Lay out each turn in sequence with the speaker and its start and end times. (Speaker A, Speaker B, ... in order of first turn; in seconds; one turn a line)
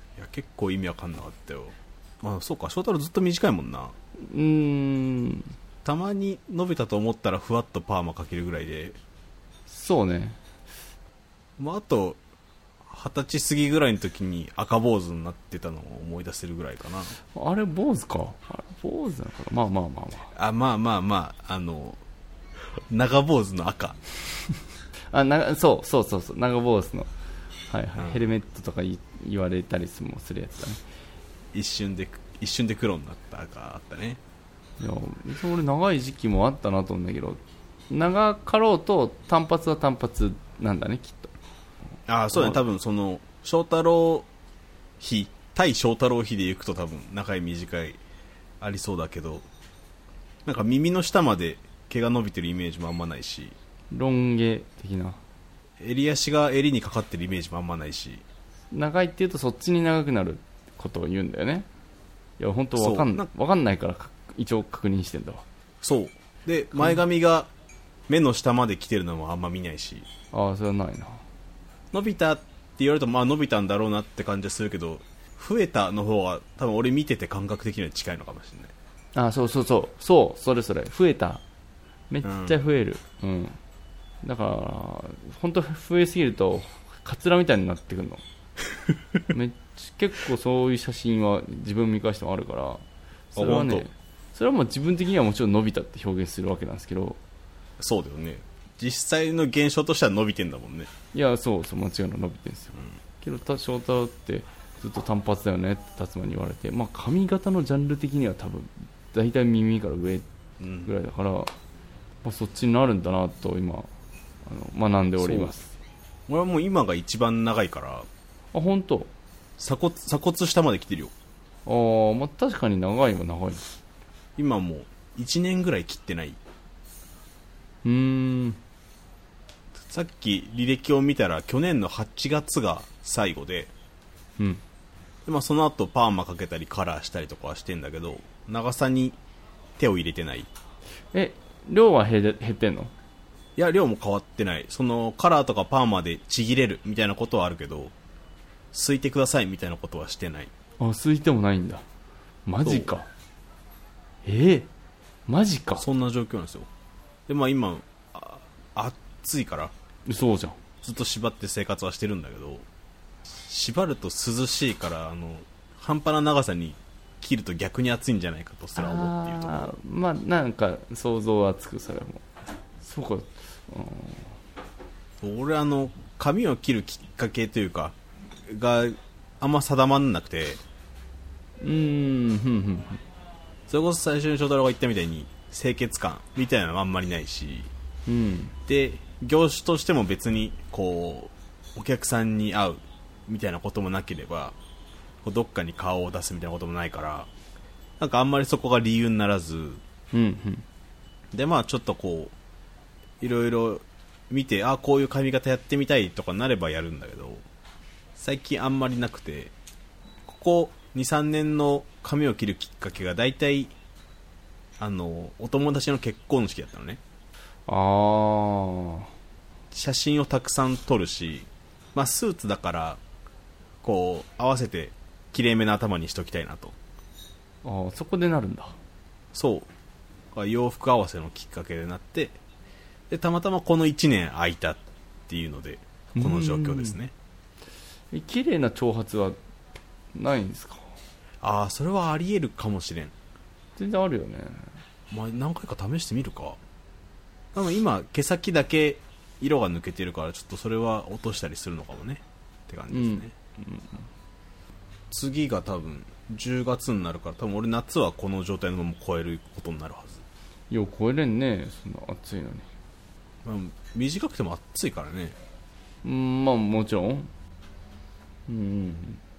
Speaker A: 0.2-4.0
Speaker B: 4.2-5.5
Speaker A: 5.8-9.0
Speaker B: 9.7-10.4
Speaker A: 11.6-12.2
Speaker A: 12.9-17.2
Speaker B: 17.3-20.3
Speaker A: 20.3-22.0
Speaker A: 22.9-24.0
Speaker B: 25.1-27.1
Speaker B: 27.7-30.8
Speaker A: 28.0-28.3
Speaker A: 31.5-34.2
Speaker B: 34.8-41.3
Speaker A: 42.1-44.3
Speaker B: 42.3-42.6
Speaker A: 45.0-48.0
Speaker A: 48.6-49.5
Speaker A: 50.5-53.5
Speaker B: 53.9-55.2
Speaker A: 55.8-58.2
Speaker B: 58.7-61.7
Speaker B: 62.4-65.4
Speaker A: 62.8-63.3
Speaker A: 65.8-67.5
Speaker B: 66.7-67.0
Speaker A: 68.1-70.1
Speaker B: 70.3-71.2
Speaker A: 71.9-78.7
Speaker B: 79.1-81.4
Speaker B: 82.1-83.6
Speaker A: 82.2-82.6
Speaker B: 84.2-88.2
Speaker B: 89.3-92.8
Speaker A: 93.3-93.9
Speaker B: 93.3-97.2
Speaker A: 97.8-100.9
Speaker B: 101.1-110.3
Speaker A: 110.6-110.9
Speaker B: 110.8-111.5
Speaker B: 112.2-113.9
Speaker B: 114.5-115.7
Speaker A: 115.2-115.5
Speaker A: 116.3-118.1
Speaker B: 118.5-119.1
Speaker A: 119.6-121.1
Speaker B: 121.7-123.7
Speaker A: 124.4-126.4
Speaker B: 127.8-128.6
Speaker A: 129.8-133.7
Speaker A: 135.3-139.2
Speaker A: 139.8-140.5
Speaker B: 141.1-142.9
Speaker A: 143.6-147.9
Speaker A: 148.7-150.5
Speaker B: 150.8-151.8
Speaker B: 152.5-153.1
Speaker A: 152.6-152.9
Speaker B: 154.2-154.7
Speaker B: 155.3-155.9
Speaker A: 155.8-156.7
Speaker A: 157.3-159.7
Speaker B: 160.1-160.6
Speaker A: 160.8-162.7
Speaker A: 163.5-169.8
Speaker B: 168.8-172.2
Speaker B: 172.8-174.4
Speaker A: 175.2-180.6
Speaker B: 181.6-183.0
Speaker A: 183.7-187.7
Speaker B: 188.1-188.6
Speaker A: 188.7-194.6
Speaker A: 195.2-197.3
Speaker A: 198.0-199.8
Speaker B: 200.1-200.7
Speaker A: 201.3-202.3
Speaker A: 203.2-207.4
Speaker A: 208.2-209.5
Speaker A: 210.3-213.7
Speaker A: 214.8-217.0
Speaker B: 217.7-219.1
Speaker A: 219.7-223.0
Speaker A: 223.8-226.8
Speaker B: 227.6-228.8
Speaker A: 229.3-229.7
Speaker A: 230.3-232.4
Speaker A: 233.1-237.1
Speaker B: 236.2-237.0
Speaker B: 238.1-239.4
Speaker B: 240.1-240.9
Speaker A: 241.4-243.1
Speaker B: 243.8-244.7
Speaker A: 245.1-246.6
Speaker A: 247.5-253.3
Speaker B: 252.9-254.1
Speaker A: 255.1-260.2
Speaker B: 260.7-262.7
Speaker A: 263.4-265.4
Speaker B: 266.0-267.3
Speaker B: 268.5-269.2